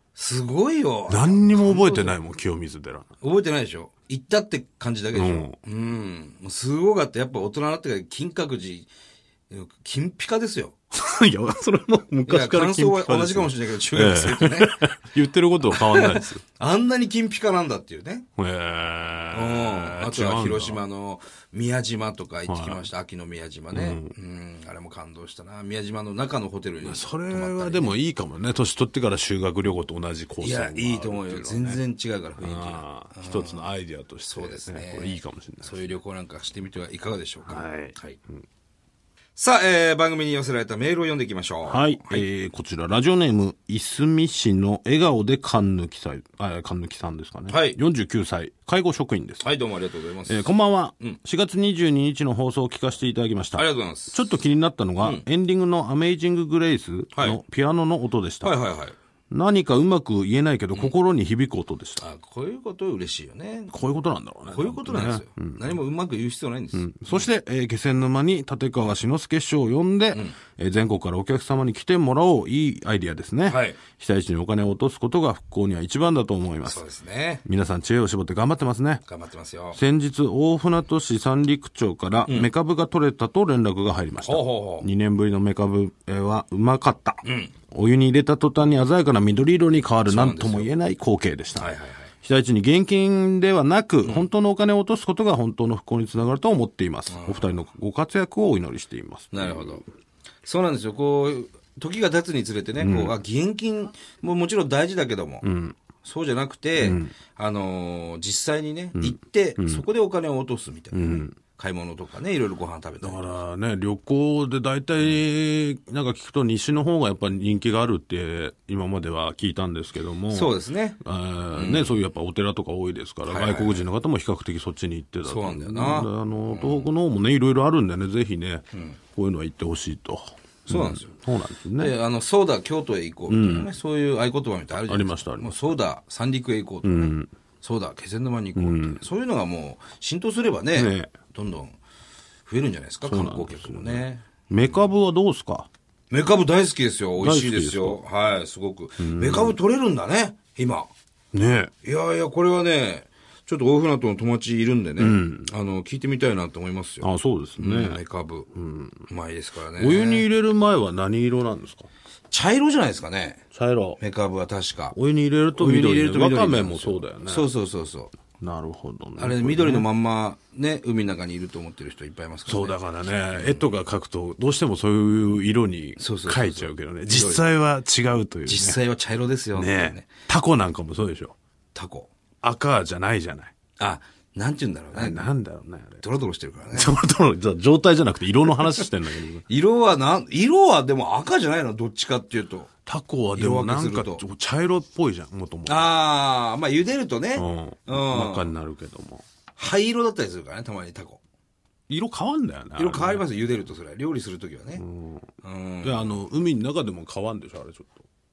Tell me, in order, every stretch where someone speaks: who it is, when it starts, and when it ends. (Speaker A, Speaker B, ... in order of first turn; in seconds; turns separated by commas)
Speaker A: 0.1-2.1, Speaker B: 1.1-3.1, Speaker A: 3.2-8.9, Speaker B: 5.1-5.5, Speaker A: 9.5-10.7, Speaker B: 10.9-16.4, Speaker A: 12.3-14.8, Speaker A: 15.7-18.2, Speaker B: 18.4-20.8, Speaker A: 19.3-27.9, Speaker B: 22.5-22.9, Speaker B: 23.7-24.1, Speaker B: 26.8-31.8, Speaker A: 30.4-33.7, Speaker B: 32.4-35.9, Speaker A: 34.2-38.2, Speaker B: 37.5-37.9, Speaker A: 39.4-42.2, Speaker B: 41.7-49.5, Speaker A: 47.5-47.8, Speaker A: 49.4-50.5, Speaker B: 50.2-58.5, Speaker A: 53.5-54.3, Speaker A: 58.4-59.0, Speaker B: 59.3-62.0, Speaker A: 62.0-63.7, Speaker B: 63.7-65.8, Speaker A: 64.5-67.3, Speaker B: 66.7-76.8, Speaker A: 73.5-73.8, Speaker A: 76.7-77.4, Speaker B: 77.4-79.0, Speaker A: 79.0-79.8, Speaker B: 79.7-99.8, Speaker A: 84.2-84.8, Speaker A: 87.2-87.5, Speaker A: 90.0-90.7, Speaker A: 91.6-92.1, Speaker A: 97.1-97.5, Speaker A: 99.3-99.8, Speaker A: 100.4-105.4, Speaker B: 102.8-103.1, Speaker B: 105.4-105.8, Speaker A: 106.0-113.2, Speaker B: 106.8-107.1, Speaker B: 109.0-109.8, Speaker B: 110.9-111.3, Speaker B: 113.0-128.6, Speaker A: 120.3-121.0, Speaker A: 121.5-122.0, Speaker A: 123.3-123.8, Speaker A: 125.2-126.9, Speaker A: 128.7-129.0, Speaker B: 129.1-131.9, Speaker A: 130.7-131.1, Speaker A: 131.8-141.8, Speaker B: 133.3-133.7, Speaker B: 134.8-135.5, Speaker B: 136.8-137.3, Speaker B: 138.6-139.0, Speaker B: 140.7-141.1, Speaker A: 142.4-144.2, Speaker B: 143.0-145.7, Speaker A: 146.1-150.9, Speaker B: 147.2-148.0, Speaker B: 149.0-149.6, Speaker B: 151.3-151.7, Speaker A: 151.8-157.1, Speaker B: 155.0-155.5, Speaker B: 157.0-158.0, Speaker A: 157.6-158.5, Speaker B: 158.5-159.0, Speaker A: 159.1-160.2, Speaker B: 159.8-161.9, Speaker A: 162.3-163.4, Speaker B: 163.5-164.0, Speaker A: 164.0-164.9, Speaker B: 164.9-167.5, Speaker A: 165.6-168.1, Speaker B: 168.4-169.9, Speaker A: 169.2-172.7, Speaker B: 172.5-178.8, Speaker A: 173.3-173.7, Speaker A: 176.0-177.4, Speaker A: 178.4-180.1, Speaker B: 179.5-181.3, Speaker A: 181.7-182.1, Speaker B: 182.4-183.5, Speaker A: 183.8-185.3, Speaker B: 184.9-186.0, Speaker A: 186.0-187.0, Speaker B: 186.7-189.4, Speaker A: 189.5-192.7, Speaker B: 192.8-195.9, Speaker A: 193.3-194.2, Speaker A: 195.7-198.5, Speaker B: 197.3-199.2, Speaker A: 199.6-201.2, Speaker B: 201.9-203.2, Speaker A: 202.8-204.8, Speaker B: 204.8-205.3, Speaker A: 205.4-206.1, Speaker B: 205.8-208.0